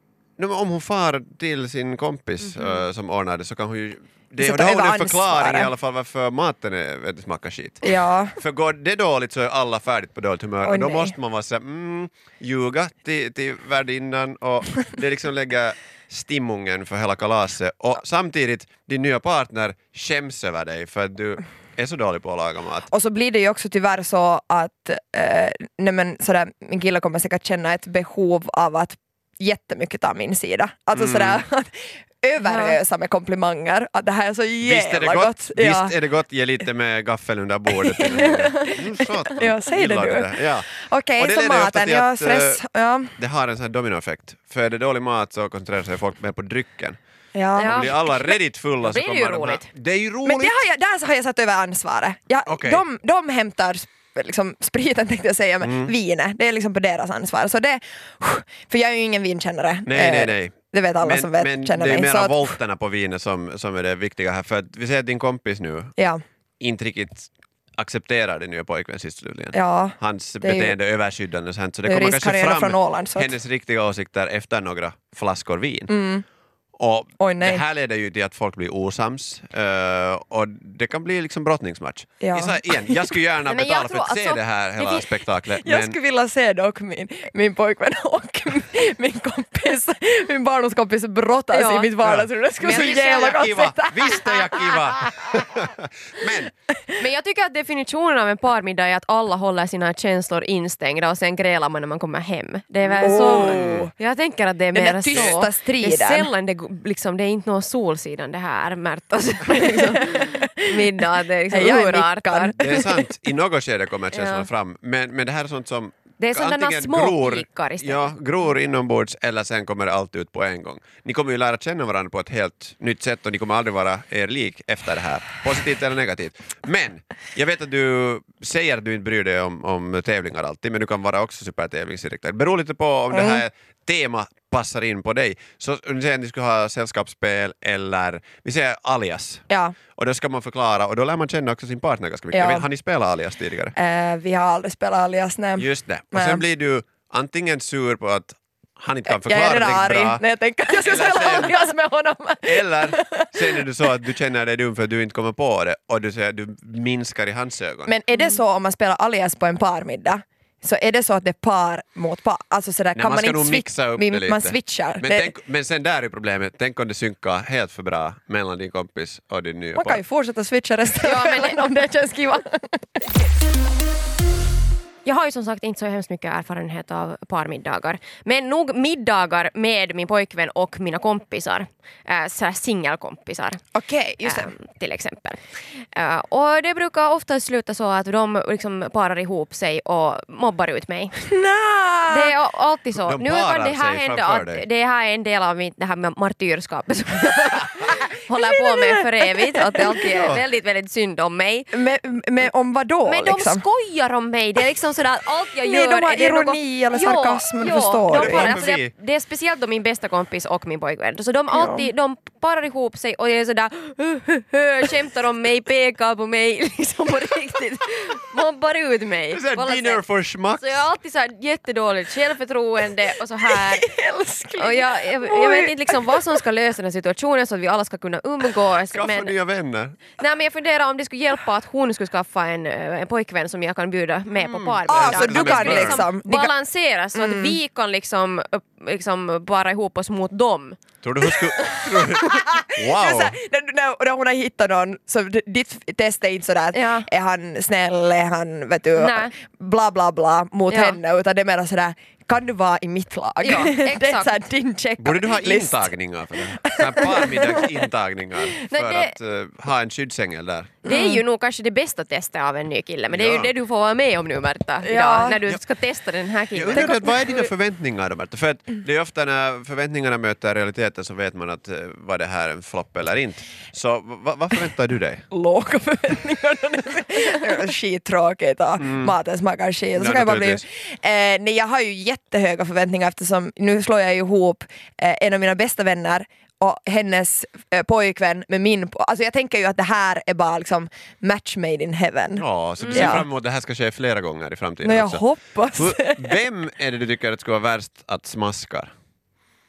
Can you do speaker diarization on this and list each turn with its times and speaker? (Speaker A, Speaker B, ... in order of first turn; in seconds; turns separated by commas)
Speaker A: 0.4-22.9, Speaker B: 2.4-2.8, Speaker C: 4.4-5.7, Speaker C: 7.8-8.4, Speaker C: 10.6-11.2, Speaker C: 22.9-36.0, Speaker A: 30.9-31.4, Speaker B: 32.4-32.8, Speaker A: 34.6-42.6, Speaker C: 37.7-43.1, Speaker A: 43.2-47.0, Speaker C: 47.3-47.8, Speaker B: 47.5-49.7, Speaker A: 47.6-50.6, Speaker C: 50.2-62.6, Speaker A: 52.5-52.8, Speaker A: 55.6-55.9, Speaker A: 59.8-65.9, Speaker A: 66.6-75.9, Speaker C: 69.5-70.8, Speaker C: 71.8-73.3, Speaker C: 75.9-76.2, Speaker A: 76.8-86.0, Speaker C: 77.2-77.6, Speaker C: 82.2-83.1, Speaker B: 83.5-85.2, Speaker C: 85.6-95.5, Speaker B: 91.5-92.0, Speaker A: 92.0-96.5, Speaker B: 92.6-93.4, Speaker C: 96.7-97.0, Speaker B: 97.0-112.6, Speaker C: 103.0-103.9, Speaker A: 103.0-103.9, Speaker C: 104.7-106.3, Speaker C: 109.6-113.2, Speaker A: 112.6-143.7, Speaker B: 114.1-114.5, Speaker B: 116.2-118.1, Speaker C: 133.1-133.4, Speaker C: 139.5-139.8, Speaker C: 142.3-142.7, Speaker C: 143.8-146.4, Speaker A: 145.6-151.6, Speaker C: 149.1-153.7, Speaker A: 152.4-157.9, Speaker C: 157.9-165.3, Speaker A: 162.9-170.0, Speaker C: 169.7-173.0, Speaker B: 170.9-171.9, Speaker B: 175.0-183.6, Speaker C: 183.7-184.6, Speaker B: 184.2-185.4, Speaker B: 185.9-191.1, Speaker C: 191.2-192.3, Speaker B: 192.1-201.7, Speaker A: 192.9-194.6, Speaker C: 198.5-200.1, Speaker A: 200.0-200.4, Speaker C: 201.7-203.6, Speaker B: 203.0-220.0, Speaker C: 205.6-208.6, Speaker A: 208.1-208.9, Speaker C: 211.5-211.8, Speaker A: 219.3-220.8, Speaker B: 220.6-223.8, Speaker C: 223.4-226.4, Speaker B: 224.6-229.3, Speaker A: 228.9-230.0, Speaker B: 230.2-240.8, Speaker A: 234.4-236.0, Speaker C: 234.9-236.5, Speaker C: 237.1-237.6, Speaker A: 241.0-243.3, Speaker C: 241.2-255.9, Speaker B: 246.7-247.1, Speaker B: 248.9-249.3, Speaker B: 250.7-251.0, Speaker B: 253.4-254.4, Speaker A: 255.0-260.8, Speaker C: 256.6-257.9, Speaker B: 258.7-259.1, Speaker C: 260.8-261.2, Speaker B: 260.8-267.5, Speaker A: 263.1-263.5, Speaker C: 264.8-265.4, Speaker A: 266.5-275.2, Speaker C: 275.3-293.2, Speaker A: 278.8-279.1, Speaker A: 279.9-280.6, Speaker A: 292.3-295.2, Speaker B: 292.8-293.2, Speaker C: 294.8-296.4, Speaker A: 295.7-298.9